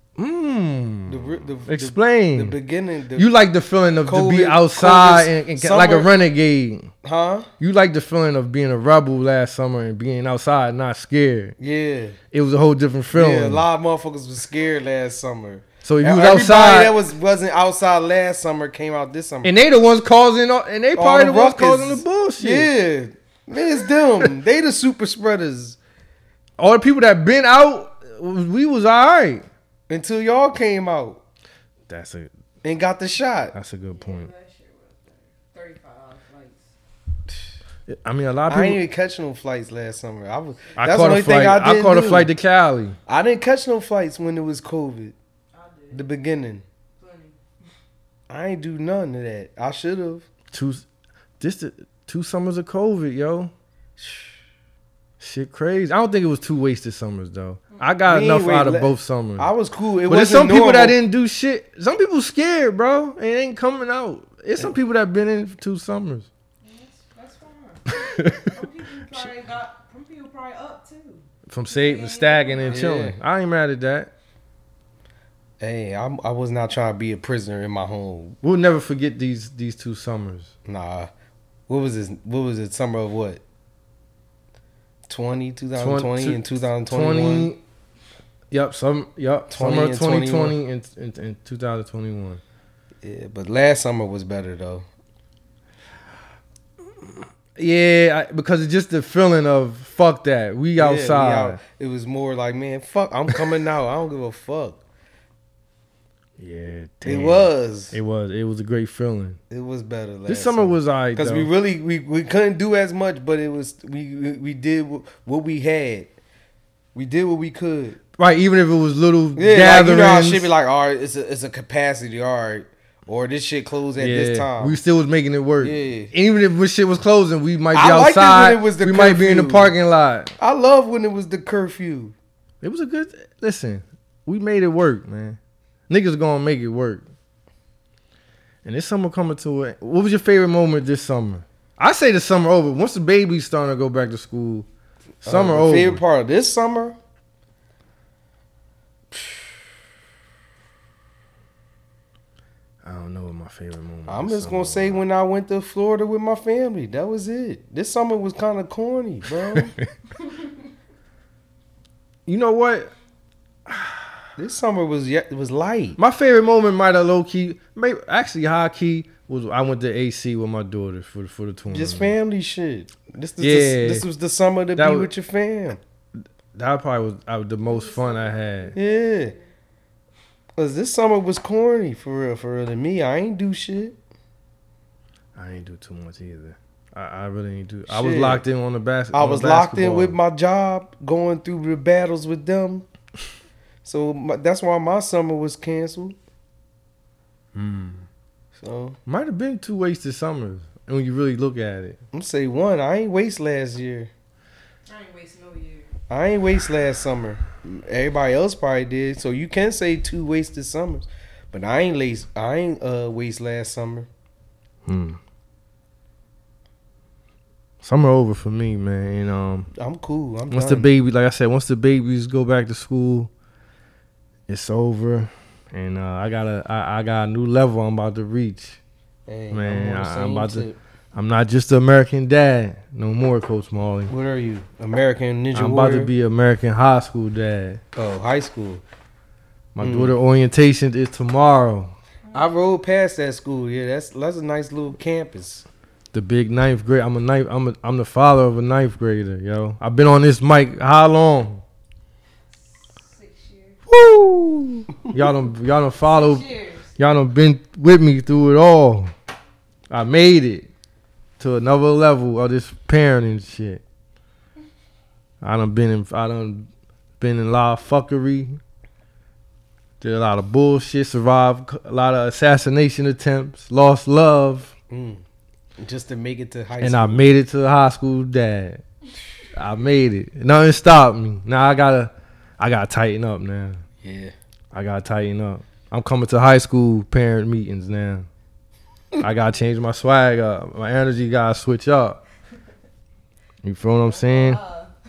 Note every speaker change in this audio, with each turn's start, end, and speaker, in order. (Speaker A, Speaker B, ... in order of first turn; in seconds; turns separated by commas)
Speaker A: 0.2-2.5, Speaker B: 1.1-3.3, Speaker A: 3.1-6.9, Speaker B: 4.0-6.1, Speaker B: 7.0-7.5, Speaker A: 7.6-11.6, Speaker B: 11.6-12.2, Speaker A: 12.3-13.6, Speaker B: 13.1-19.5, Speaker A: 15.8-17.0, Speaker A: 19.4-22.7, Speaker B: 20.9-25.8, Speaker A: 26.6-29.4, Speaker B: 29.9-31.2, Speaker A: 31.9-32.3, Speaker B: 32.6-33.5, Speaker A: 33.5-34.3, Speaker C: 33.9-36.7, Speaker A: 37.9-38.8, Speaker B: 38.5-42.3, Speaker A: 40.8-43.0, Speaker B: 43.1-45.1, Speaker C: 45.5-46.0, Speaker B: 45.9-46.6, Speaker C: 47.0-47.4, Speaker B: 48.3-50.3, Speaker A: 50.5-50.8, Speaker A: 51.4-53.5, Speaker B: 54.0-54.3, Speaker A: 55.2-59.5, Speaker B: 58.1-61.0, Speaker A: 60.1-66.3, Speaker C: 66.6-72.9, Speaker A: 67.9-68.5, Speaker A: 71.5-74.1, Speaker B: 72.7-73.2, Speaker B: 75.6-78.4, Speaker A: 78.4-80.5, Speaker B: 80.7-81.1, Speaker B: 81.7-83.4, Speaker B: 85.1-87.5, Speaker A: 85.8-87.6, Speaker A: 88.5-92.4, Speaker B: 89.5-90.5, Speaker B: 93.0-94.8, Speaker A: 97.5-101.6, Speaker B: 100.8-104.8, Speaker A: 106.4-109.4, Speaker B: 107.0-108.0, Speaker B: 109.5-116.1, Speaker A: 110.3-111.5, Speaker B: 116.9-118.0, Speaker A: 118.2-120.5, Speaker B: 119.3-124.8, Speaker A: 124.0-130.3, Speaker B: 125.6-126.1, Speaker B: 127.7-129.7, Speaker B: 130.4-132.1, Speaker A: 132.6-135.4, Speaker A: 135.9-137.0, Speaker A: 138.6-144.7, Speaker A: 145.2-146.0, Speaker B: 145.2-146.9, Speaker B: 149.1-149.4, Speaker A: 152.8-155.0, Speaker B: 154.1-159.7, Speaker A: 159.4-159.9, Speaker A: 162.2-162.9, Speaker A: 163.7-164.1, Speaker B: 164.4-166.0, Speaker A: 166.0-172.1, Speaker B: 171.7-175.8, Speaker A: 173.4-174.0, Speaker A: 174.8-175.1, Speaker A: 176.2-178.8, Speaker C: 177.7-179.3, Speaker B: 178.7-179.3, Speaker B: 180.6-184.0, Speaker A: 185.3-190.2, Speaker B: 187.9-188.4, Speaker B: 189.1-192.8, Speaker B: 193.8-196.2, Speaker A: 197.5-198.0, Speaker B: 198.6-199.0, Speaker A: 199.1-202.0, Speaker B: 202.1-204.1, Speaker C: 204.9-205.9, Speaker B: 206.1-214.1, Speaker A: 214.8-215.2, Speaker A: 217.8-219.7, Speaker B: 219.8-220.9, Speaker A: 220.5-223.3, Speaker A: 224.5-228.8, Speaker B: 229.3-230.8, Speaker A: 229.5-234.1, Speaker B: 234.1-236.1, Speaker A: 235.5-237.8, Speaker B: 237.9-238.8, Speaker A: 239.7-241.9, Speaker B: 239.8-240.1, Speaker B: 242.3-245.7, Speaker A: 246.1-251.6, Speaker C: 252.7-253.8, Speaker A: 253.9-256.4, Speaker C: 256.0-256.9, Speaker A: 257.0-259.1, Speaker A: 259.9-260.7, Speaker A: 261.4-263.8, Speaker A: 265.4-266.7, Speaker A: 267.2-268.6, Speaker A: 270.0-274.7, Speaker B: 274.9-275.2, Speaker B: 275.8-277.2, Speaker A: 276.8-278.8, Speaker A: 279.5-283.8, Speaker B: 284.0-284.3, Speaker A: 284.7-288.3, Speaker A: 289.2-292.2, Speaker A: 293.6-294.6, Speaker C: 294.1-294.9